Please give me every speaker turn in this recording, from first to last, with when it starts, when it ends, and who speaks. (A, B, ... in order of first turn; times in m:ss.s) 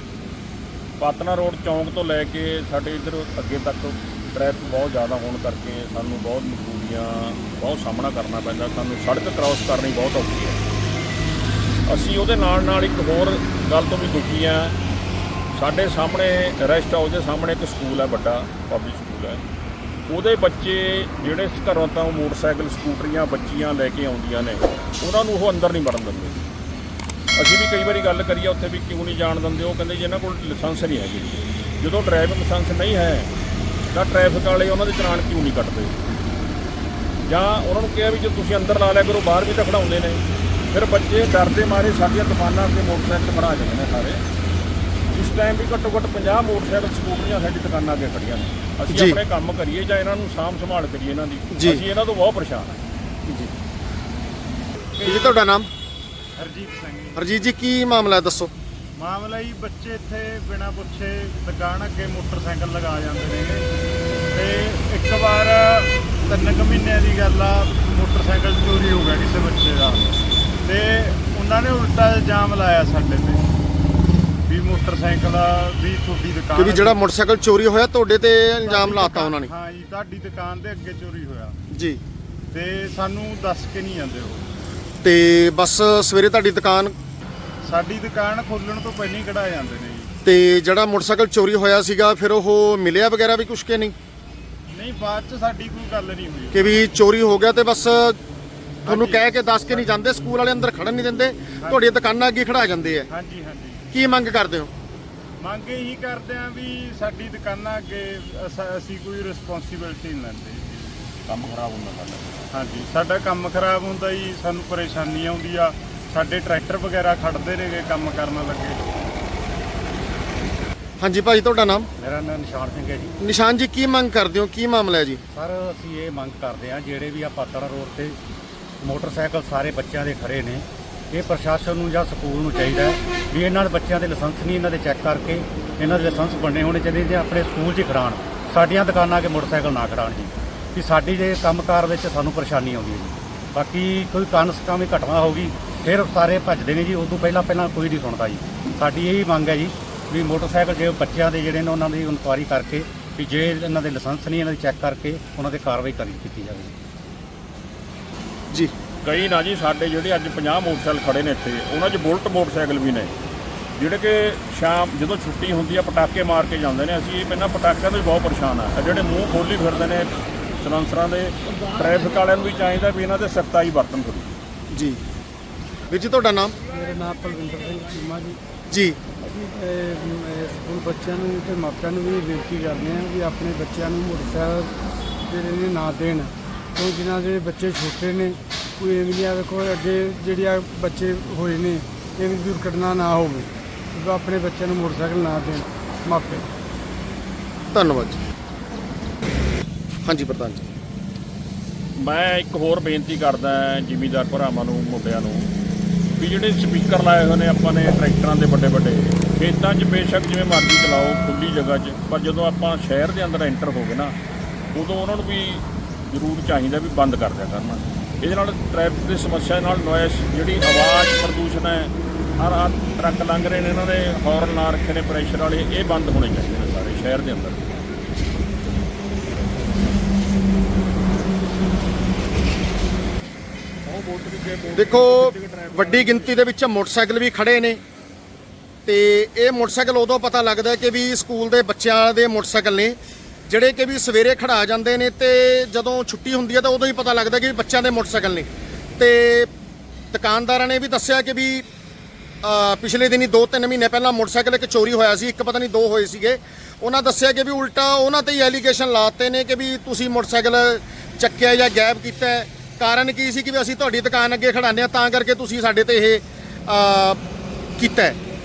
0:01.0-0:10.6 A
0:11.9-0:14.7 A
0:15.5-0:19.4 A
0:20.1-0:26.4 A
0:27.4-0:33.3 A
0:33.9-0:35.9 A
0:37.3-0:44.2 A
0:45.1-0:52.8 A
0:48.9-0:49.2 B
0:51.5-0:51.8 B
0:55.0-0:55.5 C
0:55.0-0:55.7 B
0:56.4-0:57.2 C
0:57.2-0:58.5 B
0:59.0-1:03.6 C
1:04.3-1:10.0 C
1:10.6-1:13.4 C
1:14.4-1:17.0 C
1:16.6-1:19.5 B
1:18.6-1:21.6 C
1:21.7-1:22.0 B
1:22.5-1:24.4 C
1:25.0-1:26.9 B
1:27.6-1:30.1 C
1:30.2-1:33.9 B
1:34.7-1:36.8 C
1:36.5-1:38.2 B
1:38.8-1:39.9 C
1:38.8-1:43.1 B
1:41.6-1:42.0 C
1:43.1-1:43.8 C
1:43.9-1:44.7 B
1:45.4-1:51.0 C
1:51.3-1:52.3 A
1:52.5-1:58.8 C
2:01.0-2:01.9 B
2:02.0-2:03.1 D
2:03.2-2:05.2 B
2:05.3-2:08.2 D
2:08.8-2:36.7 D
2:39.0-2:43.1 A
2:43.8-2:54.4 A
2:54.7-2:55.0 B
2:55.9-2:56.6 B
2:56.7-2:58.4 E
2:58.7-2:59.0 B
2:59.2-3:16.4 E
3:17.7-3:18.2 B
3:20.0-3:20.6 B
3:22.0-3:25.5 A
3:26.2-3:34.1 A
3:34.7-3:47.6 A
3:53.8-3:56.4 A
3:54.7-3:57.8 B
3:58.8-4:03.0 B
4:03.5-4:09.5 B
4:10.1-4:11.6 B
4:12.4-4:27.2 B
4:27.8-4:28.2 B